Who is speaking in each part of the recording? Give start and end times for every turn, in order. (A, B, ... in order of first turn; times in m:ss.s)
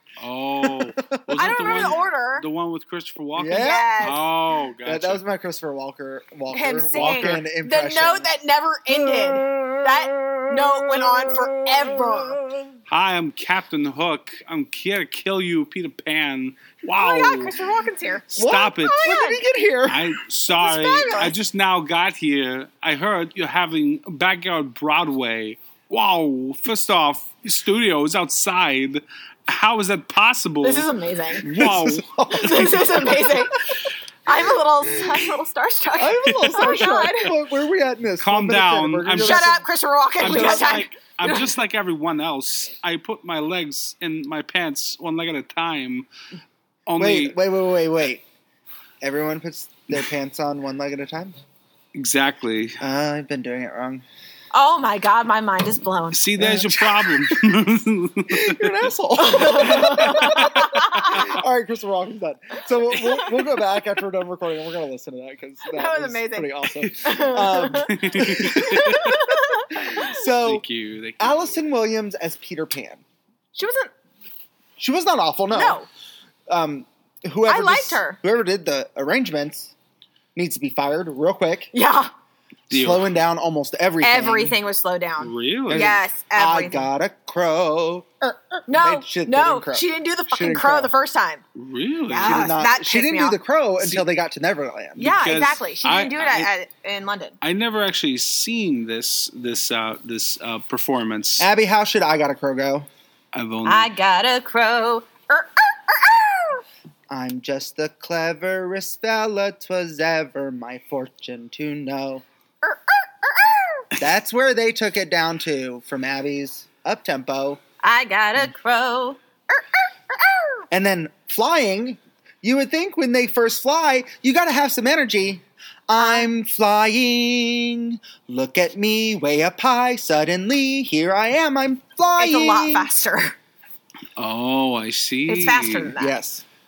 0:00.2-0:05.2 A
0:00.6-0:01.2 B
0:01.4-0:02.4 C
0:03.4-0:04.0 B
0:03.5-0:04.2 C
0:04.8-0:08.3 B
0:06.5-0:12.4 C
0:06.9-0:07.4 A
0:08.9-0:12.7 B
0:12.9-0:17.5 A
0:17.0-0:19.4 C
0:18.3-0:19.1 A
0:18.3-0:20.2 B
0:19.9-0:30.9 A
0:20.5-0:21.3 C
0:30.6-0:31.5 C
0:31.4-0:33.4 B
0:31.4-0:32.2 A
0:32.3-0:33.7 C
0:34.2-0:37.3 C
0:35.0-0:35.3 B
0:36.0-0:39.6 B
0:36.2-0:36.7 A
0:38.2-0:39.5 A
0:39.2-0:41.5 C
0:40.2-0:46.1 A
0:40.2-0:40.8 B
0:46.8-0:47.4 A
0:47.0-0:48.2 B
0:49.0-0:51.3 B
0:51.9-0:52.8 A
0:52.8-0:54.0 B
0:54.5-0:56.2 C
0:56.1-0:58.7 A
0:56.4-0:57.4 B
0:58.3-1:10.6 B
0:59.2-1:01.3 C
1:05.7-1:10.1 C
1:06.8-1:07.1 A
1:07.7-1:09.3 A
1:09.9-1:11.5 A
1:11.2-1:13.0 B
1:13.5-1:13.9 C
1:14.8-1:15.8 B
1:15.5-1:15.9 C
1:16.5-1:19.7 B
1:17.5-1:18.2 C
1:20.3-1:21.7 B
1:21.7-1:22.1 C
1:22.7-1:23.1 A
1:22.7-1:24.6 B
1:24.0-1:26.9 C
1:25.2-1:26.0 A
1:25.7-1:30.9 B
1:28.7-1:31.4 C
1:31.5-1:32.5 A
1:32.1-1:33.4 C
1:32.2-1:35.1 B
1:35.0-1:36.5 A
1:35.0-1:37.4 C
1:37.4-1:41.5 A
1:41.4-1:42.9 B
1:43.3-1:43.9 A
1:43.6-1:46.6 C
1:47.1-1:52.2 B
1:52.6-1:53.9 C
1:54.0-1:57.6 B
1:57.8-2:00.6 C
2:00.7-2:12.9 B
2:06.0-2:06.3 C
2:12.2-2:13.3 C
2:14.2-2:15.9 A
2:15.3-2:16.2 C
2:16.0-2:16.4 B